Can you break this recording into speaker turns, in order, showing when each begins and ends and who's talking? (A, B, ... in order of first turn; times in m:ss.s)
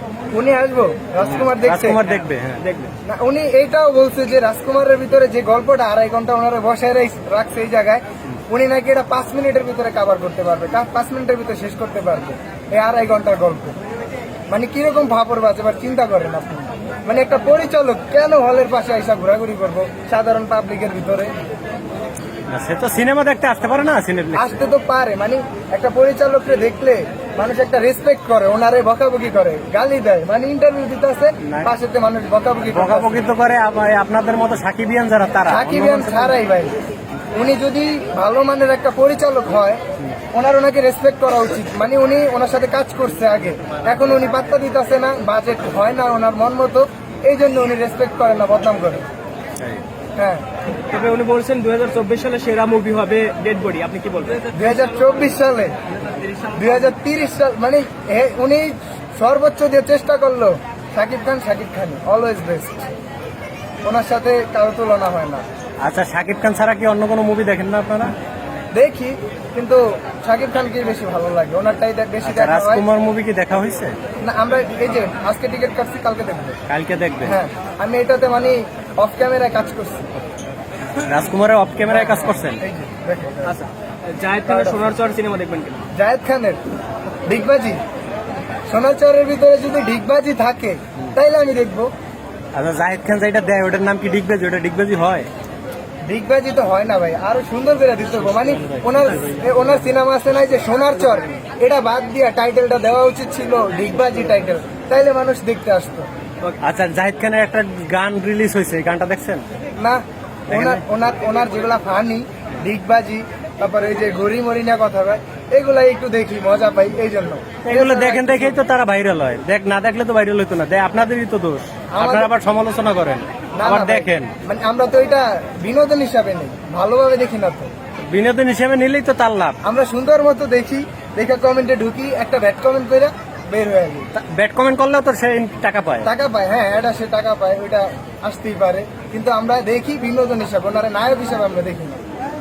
0:00.3-0:02.0 A
0:01.2-0:02.6 B
0:02.6-0:02.9 C
0:03.0-0:13.8 A
0:14.5-0:21.3 A
0:22.5-0:24.6 B
0:24.3-0:33.3 A
0:31.4-0:31.7 B
0:32.6-0:36.4 B
0:35.5-0:36.7 A
0:37.3-0:39.8 A
0:40.3-0:49.0 A
0:49.6-0:49.8 B
0:50.2-0:50.4 A
0:50.9-0:55.1 C
0:54.5-0:55.7 A
0:56.0-0:56.9 C
0:56.5-1:02.9 A
1:03.8-1:05.4 A
1:05.8-1:08.1 B
1:08.7-1:12.8 A
1:12.2-1:14.0 B
1:14.2-1:16.6 A
1:16.7-1:17.4 B
1:17.2-1:20.1 A
1:21.0-1:22.6 B
1:21.8-1:23.6 A
1:23.4-1:25.8 C
1:24.4-1:24.9 A
1:25.9-1:26.6 A
1:27.2-1:27.8 A
1:28.7-1:31.9 A
1:32.5-1:35.3 B
1:36.0-1:46.1 A
1:38.2-1:39.5 B
1:46.6-1:49.4 B
1:49.8-1:58.6 A
1:50.5-1:50.8 B
1:57.6-2:04.3 B
2:01.9-2:02.3 A
2:03.5-2:07.7 A
2:08.1-2:09.6 B
2:09.6-2:14.1 A
2:14.1-2:16.1 B
2:16.0-2:22.0 A